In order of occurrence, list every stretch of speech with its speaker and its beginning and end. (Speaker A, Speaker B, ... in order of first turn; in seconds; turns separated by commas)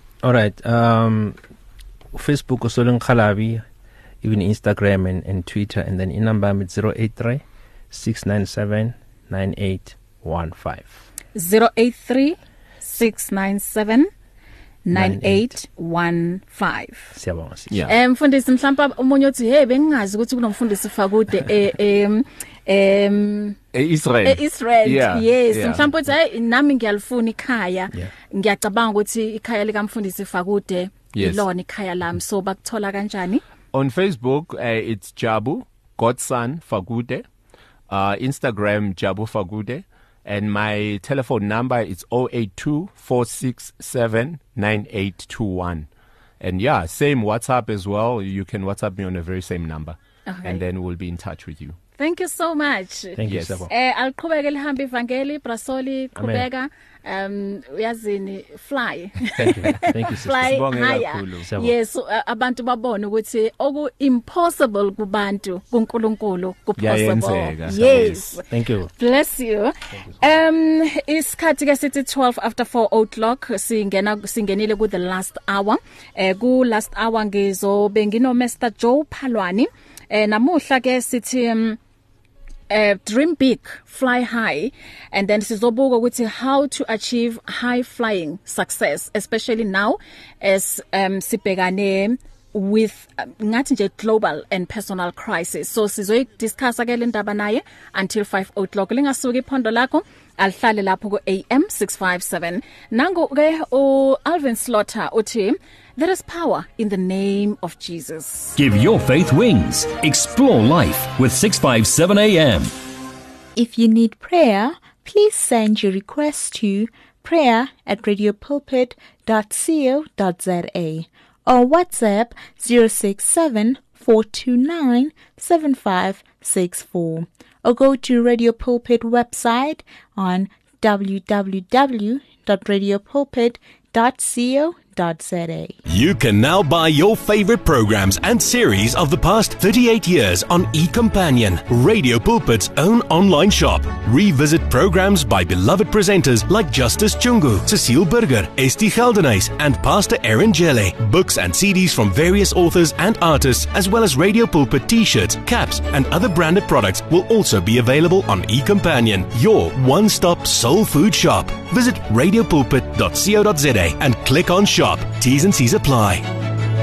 Speaker A: 0.2-1.4, Speaker A: 2.1-3.6, Speaker A: 4.2-11.0, Speaker B: 11.3-14.1, Speaker B: 14.8-17.2, Speaker A: 14.9-15.5, Speaker A: 17.1-17.7, Speaker C: 17.7-17.9, Speaker B: 17.9-23.6, Speaker C: 23.7-25.8, Speaker B: 24.2-33.4, Speaker C: 31.1-31.4, Speaker C: 33.7-37.2, Speaker C: 37.9-45.9, Speaker C: 46.4-51.8, Speaker B: 50.3-50.6, Speaker B: 52.0-68.4, Speaker A: 53.2-53.7, Speaker C: 53.3-53.6, Speaker A: 56.1-56.5, Speaker A: 59.4-60.6, Speaker C: 60.3-61.5, Speaker A: 61.5-61.7, Speaker C: 66.8-68.4, Speaker A: 68.5-68.9, Speaker B: 69.0-81.8, Speaker B: 82.7-108.6, Speaker D: 108.5-112.7, Speaker E: 113.5-135.8, Speaker F: 135.9-166.2